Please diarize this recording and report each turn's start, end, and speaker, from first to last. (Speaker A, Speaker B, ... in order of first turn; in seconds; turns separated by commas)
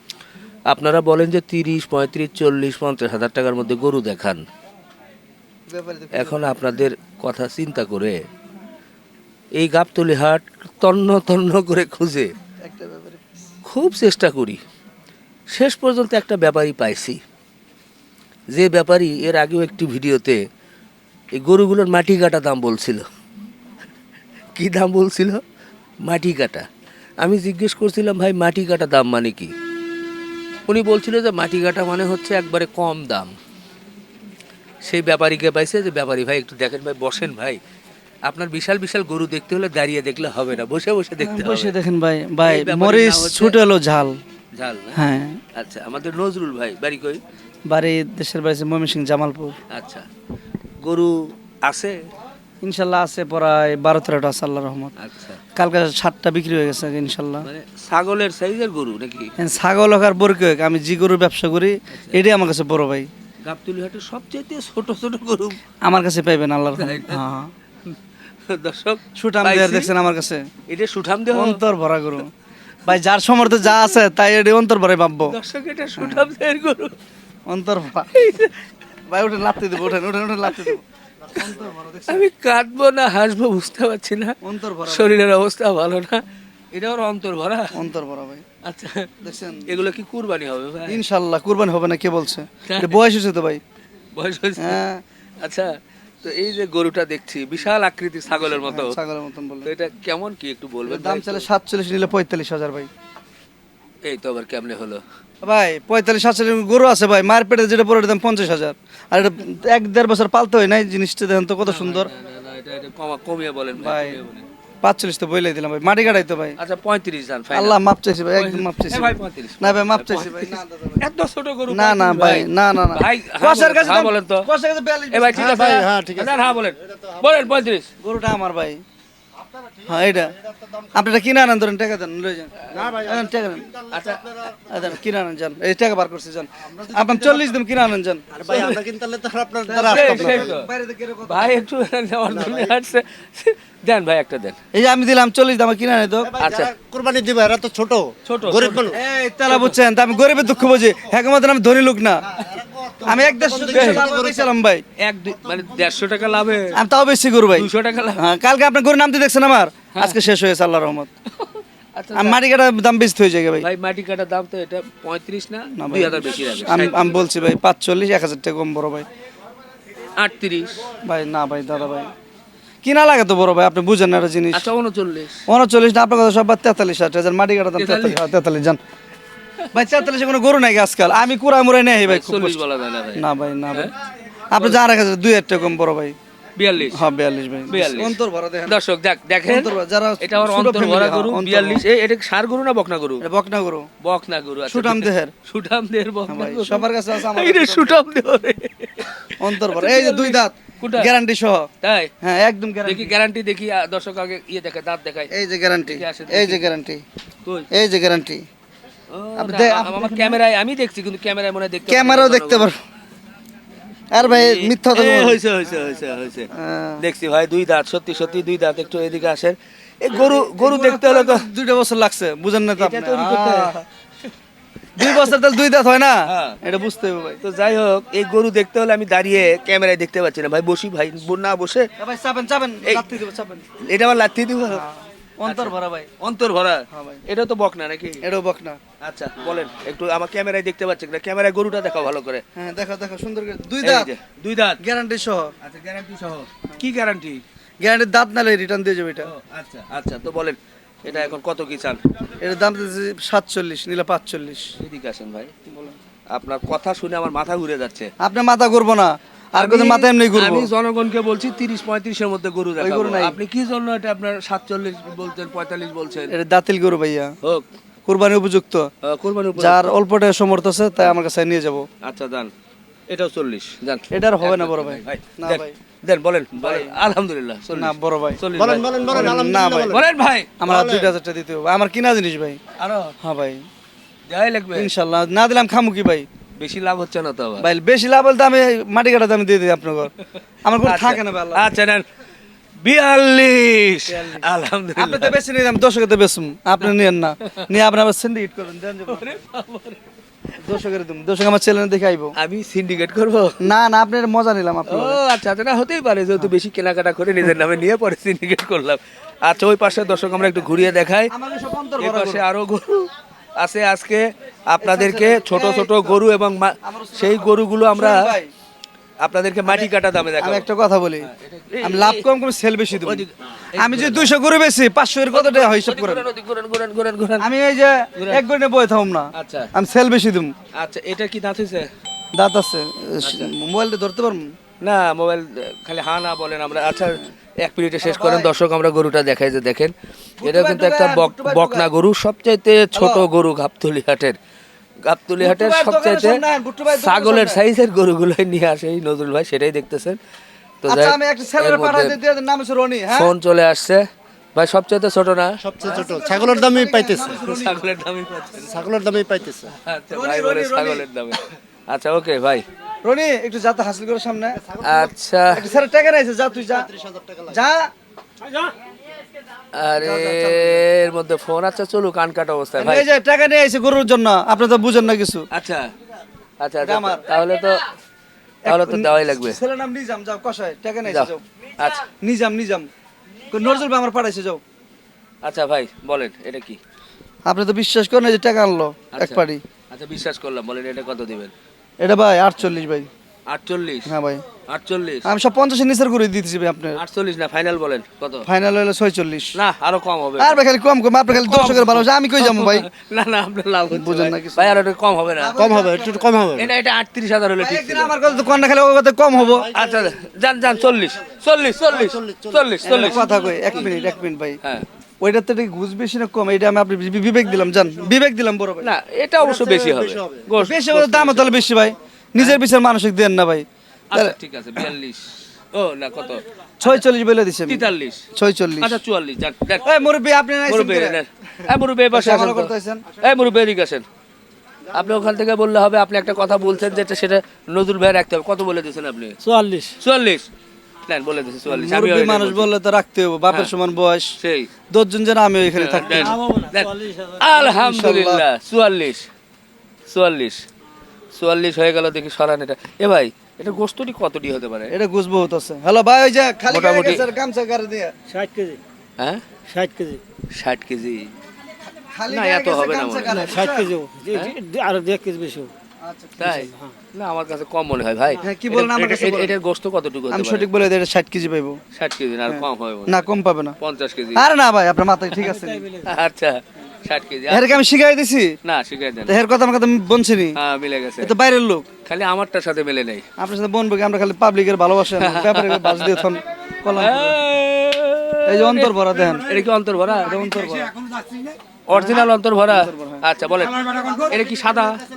Speaker A: 0.7-4.5, Speaker B: 5.7-6.5, Speaker A: 6.1-8.2, Speaker A: 9.5-12.3, Speaker B: 12.6-13.2, Speaker A: 13.7-14.6, Speaker A: 15.5-17.2, Speaker A: 18.5-20.4, Speaker A: 21.3-23.1, Speaker A: 24.6-25.4, Speaker A: 26.0-26.7, Speaker A: 27.2-29.5, Speaker A: 30.7-33.3, Speaker A: 34.8-37.6, Speaker A: 38.2-41.7, Speaker B: 41.2-44.2, Speaker A: 42.4-43.6, Speaker A: 44.5-45.0, Speaker B: 44.9-45.4, Speaker A: 45.5-47.2, Speaker B: 47.7-49.6, Speaker A: 49.7-50.1, Speaker A: 50.8-52.0, Speaker B: 52.6-54.9, Speaker A: 55.0-55.4, Speaker B: 55.5-57.5, Speaker A: 57.4-59.3, Speaker B: 59.4-63.1, Speaker A: 61.9-62.2, Speaker A: 63.4-65.6, Speaker B: 65.8-67.5, Speaker A: 66.8-67.2, Speaker A: 67.8-69.9, Speaker B: 69.2-70.5, Speaker A: 70.7-71.6, Speaker B: 71.3-72.3, Speaker B: 72.8-75.3, Speaker A: 75.3-77.0, Speaker B: 76.0-76.3, Speaker B: 77.5-78.1, Speaker A: 78.1-78.6, Speaker B: 79.1-80.8, Speaker B: 81.3-82.3, Speaker A: 82.1-87.8, Speaker B: 84.4-85.2, Speaker B: 87.7-88.4, Speaker A: 88.6-89.1, Speaker B: 89.2-89.7, Speaker A: 89.7-91.0, Speaker B: 90.9-93.6, Speaker A: 92.7-93.0, Speaker A: 94.2-94.8, Speaker B: 94.6-95.0, Speaker A: 95.4-99.0, Speaker B: 98.4-99.7, Speaker A: 99.6-101.5, Speaker B: 100.8-102.9, Speaker A: 104.0-105.0, Speaker B: 105.4-112.1, Speaker A: 111.7-114.4, Speaker B: 113.8-114.2, Speaker B: 114.8-116.6, Speaker A: 116.6-117.8, Speaker B: 117.5-121.0, Speaker A: 118.3-124.5, Speaker B: 121.7-125.8, Speaker A: 125.1-127.9, Speaker C: 125.3-127.2, Speaker B: 128.0-128.8, Speaker B: 129.8-130.3, Speaker B: 130.9-133.7, Speaker C: 132.7-133.3, Speaker A: 133.9-134.2, Speaker C: 133.9-134.6, Speaker B: 134.7-138.2, Speaker C: 136.7-137.5, Speaker C: 138.3-140.5, Speaker A: 138.4-138.8, Speaker B: 139.7-141.6, Speaker A: 139.7-140.7, Speaker A: 141.3-144.6, Speaker C: 142.3-142.7, Speaker B: 144.7-146.3, Speaker C: 146.3-149.0, Speaker A: 146.4-146.7, Speaker A: 148.2-148.9, Speaker B: 148.9-152.3, Speaker C: 152.4-154.5, Speaker B: 153.0-154.8, Speaker A: 153.7-154.1, Speaker A: 155.0-156.8, Speaker C: 155.5-156.5, Speaker B: 156.7-161.1, Speaker A: 157.5-158.2, Speaker A: 161.4-162.4, Speaker B: 162.1-163.7, Speaker A: 163.6-167.1, Speaker B: 165.7-169.1, Speaker A: 170.2-170.8, Speaker B: 171.0-172.1, Speaker B: 172.8-174.7, Speaker A: 174.5-175.4, Speaker B: 175.5-178.8, Speaker A: 177.8-178.2, Speaker B: 179.7-182.6, Speaker A: 182.0-183.9, Speaker B: 183.1-183.9, Speaker B: 184.5-186.2, Speaker A: 186.6-187.0, Speaker B: 186.9-188.8, Speaker A: 187.7-193.2, Speaker B: 189.5-191.8, Speaker B: 193.2-193.9, Speaker A: 194.0-201.1, Speaker B: 194.7-195.3, Speaker B: 196.3-198.0, Speaker B: 199.4-201.7, Speaker A: 201.8-202.1, Speaker B: 202.2-203.1, Speaker A: 202.8-205.3, Speaker B: 205.3-207.0, Speaker A: 205.8-206.6, Speaker B: 207.7-208.4, Speaker A: 209.1-212.7, Speaker B: 209.4-210.4, Speaker B: 211.9-212.8, Speaker B: 214.1-215.4, Speaker A: 214.1-221.5, Speaker B: 216.5-217.0, Speaker B: 220.1-223.8, Speaker A: 222.8-223.8, Speaker B: 224.9-227.4, Speaker A: 226.2-226.6, Speaker A: 227.4-231.9, Speaker B: 232.0-233.6, Speaker A: 233.8-234.8, Speaker B: 234.7-236.1, Speaker A: 235.4-238.2, Speaker B: 236.9-237.2, Speaker B: 238.2-238.8, Speaker A: 239.0-242.4, Speaker B: 242.5-244.1, Speaker A: 243.8-244.8, Speaker B: 244.8-245.5, Speaker A: 245.6-247.4, Speaker B: 247.8-249.3, Speaker A: 249.2-252.0, Speaker B: 252.4-254.7, Speaker A: 254.8-255.5, Speaker B: 255.7-255.9, Speaker A: 256.3-258.1, Speaker B: 258.2-260.7, Speaker A: 259.6-266.3, Speaker B: 262.8-263.4, Speaker B: 266.3-267.3, Speaker B: 268.1-268.9, Speaker A: 269.0-269.9, Speaker B: 269.6-271.9, Speaker A: 272.0-272.5, Speaker A: 273.1-279.3, Speaker B: 274.1-275.7, Speaker B: 276.6-276.9, Speaker B: 277.7-278.4, Speaker C: 278.5-280.1, Speaker B: 279.1-280.0, Speaker A: 279.9-280.5, Speaker B: 280.6-282.6, Speaker C: 280.6-281.1, Speaker A: 282.8-283.1, Speaker B: 283.2-283.6, Speaker A: 284.3-284.9, Speaker B: 284.7-286.3, Speaker A: 286.6-287.7, Speaker B: 287.6-290.1, Speaker B: 290.6-291.7, Speaker A: 290.8-292.0, Speaker A: 292.8-295.3, Speaker B: 294.1-294.4, Speaker B: 294.9-299.2, Speaker A: 299.1-300.0, Speaker B: 300.6-302.3, Speaker A: 302.4-303.6, Speaker B: 303.6-305.2, Speaker A: 304.9-311.3, Speaker B: 311.3-312.4, Speaker A: 312.0-318.3, Speaker B: 314.8-316.2, Speaker B: 316.8-318.5, Speaker A: 319.2-320.6, Speaker B: 319.6-321.3, Speaker A: 321.2-322.2, Speaker B: 321.8-323.2, Speaker A: 323.0-324.3, Speaker B: 323.8-326.2, Speaker A: 325.3-327.5, Speaker B: 327.4-330.5, Speaker A: 328.1-328.4, Speaker A: 329.3-329.7, Speaker A: 330.7-331.9, Speaker B: 332.3-334.5, Speaker A: 333.2-333.5, Speaker A: 334.8-344.4, Speaker B: 338.0-338.5, Speaker B: 340.4-341.9, Speaker B: 342.9-343.2, Speaker A: 345.1-350.2, Speaker B: 345.4-347.6, Speaker A: 350.8-352.1, Speaker B: 350.9-353.3, Speaker A: 353.1-355.6, Speaker C: 355.6-357.4, Speaker B: 355.8-357.8, Speaker A: 357.4-358.8, Speaker C: 358.6-359.7, Speaker A: 359.7-362.6, Speaker B: 360.1-361.0, Speaker B: 363.0-364.6, Speaker C: 364.7-365.1, Speaker A: 364.8-365.6, Speaker B: 365.5-366.9, Speaker C: 367.1-367.5, Speaker B: 367.5-367.9, Speaker A: 369.7-373.1, Speaker B: 370.0-370.8, Speaker B: 372.8-375.4, Speaker A: 375.5-375.9, Speaker A: 376.6-377.8, Speaker B: 376.8-377.2, Speaker B: 378.6-381.4, Speaker A: 378.6-379.6, Speaker A: 381.1-382.1, Speaker B: 382.2-382.9, Speaker B: 383.5-384.6, Speaker A: 385.4-386.8, Speaker B: 387.4-389.6, Speaker A: 389.1-391.5, Speaker B: 392.0-393.1, Speaker A: 393.5-394.1, Speaker B: 394.1-394.4, Speaker A: 394.7-395.3, Speaker B: 395.2-397.0, Speaker A: 397.0-398.5, Speaker B: 398.4-399.5, Speaker A: 399.5-400.6, Speaker B: 400.4-402.9, Speaker A: 401.4-405.5, Speaker B: 403.9-404.8, Speaker B: 405.4-406.3, Speaker C: 405.6-406.7, Speaker A: 406.6-408.1, Speaker B: 407.6-409.7, Speaker A: 409.7-413.4, Speaker C: 409.8-410.1, Speaker C: 411.8-413.6, Speaker B: 412.8-414.6, Speaker B: 415.2-418.9, Speaker A: 418.8-421.6, Speaker C: 419.4-420.4, Speaker B: 420.6-424.8, Speaker A: 424.1-426.4, Speaker B: 426.8-429.0, Speaker A: 427.7-428.2, Speaker A: 428.8-429.9, Speaker B: 429.8-431.2, Speaker A: 430.6-434.0, Speaker B: 432.1-433.0, Speaker A: 434.9-439.4, Speaker D: 439.4-439.9, Speaker A: 440.0-440.5, Speaker A: 441.1-442.7, Speaker B: 441.6-444.3, Speaker A: 444.4-444.7, Speaker B: 444.9-446.4, Speaker A: 445.7-449.3, Speaker D: 446.1-447.6, Speaker B: 447.6-448.4, Speaker A: 450.1-450.7, Speaker A: 451.3-454.9, Speaker B: 454.9-458.1, Speaker A: 456.7-457.2, Speaker D: 458.3-458.8, Speaker D: 459.7-460.2, Speaker A: 460.5-461.3, Speaker B: 462.1-463.9, Speaker A: 462.3-463.5, Speaker D: 463.3-465.7, Speaker B: 466.0-466.7, Speaker A: 466.4-470.7, Speaker B: 468.4-469.5, Speaker B: 470.3-471.8, Speaker A: 471.9-473.2, Speaker B: 472.5-473.8, Speaker A: 473.8-474.4, Speaker B: 474.3-475.8, Speaker D: 475.4-476.1, Speaker A: 476.0-477.8, Speaker B: 477.5-478.5, Speaker A: 478.6-479.4, Speaker B: 479.3-480.6, Speaker A: 480.6-481.3, Speaker B: 481.2-481.9, Speaker A: 482.0-483.2, Speaker B: 483.4-487.4, Speaker A: 485.1-486.4, Speaker A: 486.9-490.4, Speaker B: 488.4-489.5, Speaker B: 490.2-490.9, Speaker A: 491.9-495.0, Speaker B: 491.9-493.2